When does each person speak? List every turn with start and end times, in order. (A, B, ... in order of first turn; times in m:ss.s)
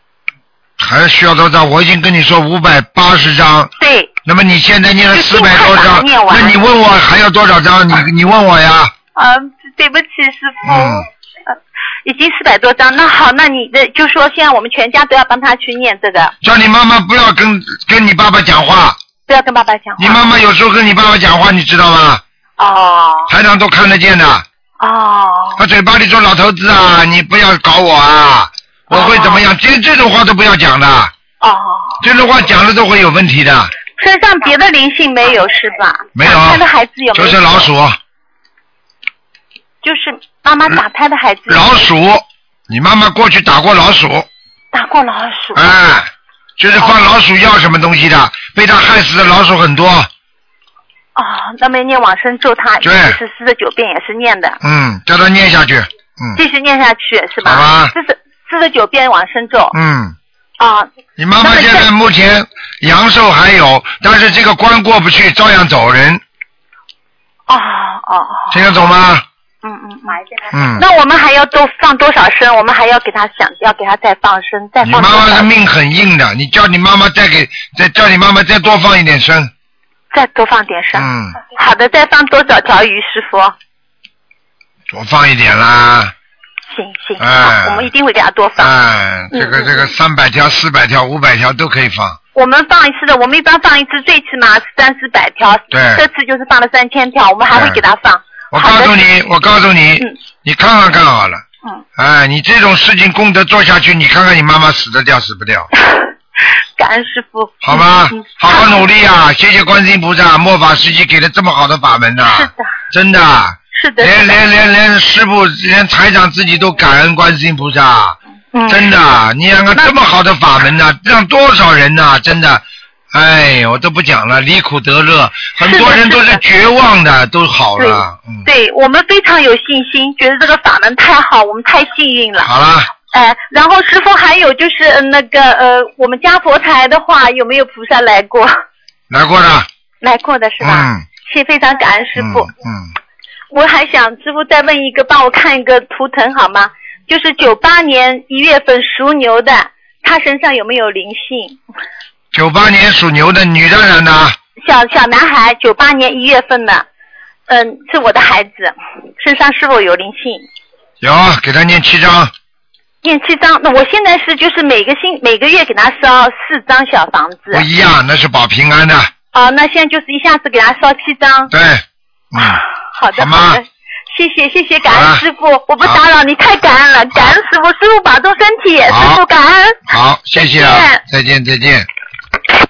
0:00.8-0:03.7 A
0:03.8-0:04.2 B
0:04.2-0:08.9 A
0:05.1-0:06.6 B
0:09.2-0:16.3 B
0:10.6-0:11.0 A
0:16.4-0:19.0 A
0:19.3-0:20.3 B
0:20.0-0:22.2 A
0:22.6-0:23.3 B
0:23.3-0:24.5 A
0:24.8-0:25.6 B
0:25.6-0:31.1 A
0:28.9-0:29.5 B
0:31.4-0:32.0 B
0:32.0-0:33.7 A
0:34.0-0:37.7 B
0:36.2-0:38.0 A
0:39.8-0:41.7 B
0:41.5-0:44.3 A
0:44.7-0:45.7 B
0:45.6-0:50.1 A
0:46.8-0:47.0 B
0:51.2-0:54.6 B
0:52.8-0:53.2 A
0:54.6-0:56.4 A
0:56.4-0:59.8 B
0:57.4-0:57.9 A
0:59.7-1:00.2 A
1:00.6-1:01.9 B
1:01.2-1:06.2 A
1:07.5-1:08.7 B
1:08.5-1:09.2 A
1:09.6-1:15.5 B
1:10.5-1:10.8 A
1:14.8-1:19.5 A
1:20.1-1:23.6 B
1:21.0-1:21.4 A
1:24.9-1:26.1 A
1:26.7-1:28.7 B
1:27.2-1:27.9 A
1:28.6-1:32.2 A
1:29.3-1:29.9 B
1:32.3-1:39.0 B
1:35.7-1:36.0 A
1:37.5-1:37.8 A
1:38.5-1:41.4 A
1:42.0-1:45.7 A
1:45.8-1:48.9 B
1:47.6-1:58.2 A
1:52.2-1:52.7 B
1:53.7-1:54.4 B
1:58.5-1:59.0 B
1:58.7-2:08.5 A
2:05.6-2:06.4 B
2:07.8-2:12.5 B
2:12.4-2:12.9 A
2:13.1-2:18.5 B
2:19.1-2:19.7 A
2:20.0-2:22.5 B
2:20.6-2:21.0 A
2:22.2-2:22.9 A
2:23.5-2:31.6 B
2:32.3-2:34.4 A
2:34.6-2:36.9 B
2:37.5-2:40.4 B
2:41.0-2:42.3 A
2:43.0-2:47.7 B
2:47.5-2:49.1 A
2:49.3-2:51.5 B
2:51.5-2:52.6 A
2:52.4-3:01.0 B
2:53.2-2:53.6 A
2:54.8-2:55.2 A
2:58.9-2:59.2 A
2:59.9-3:01.9 A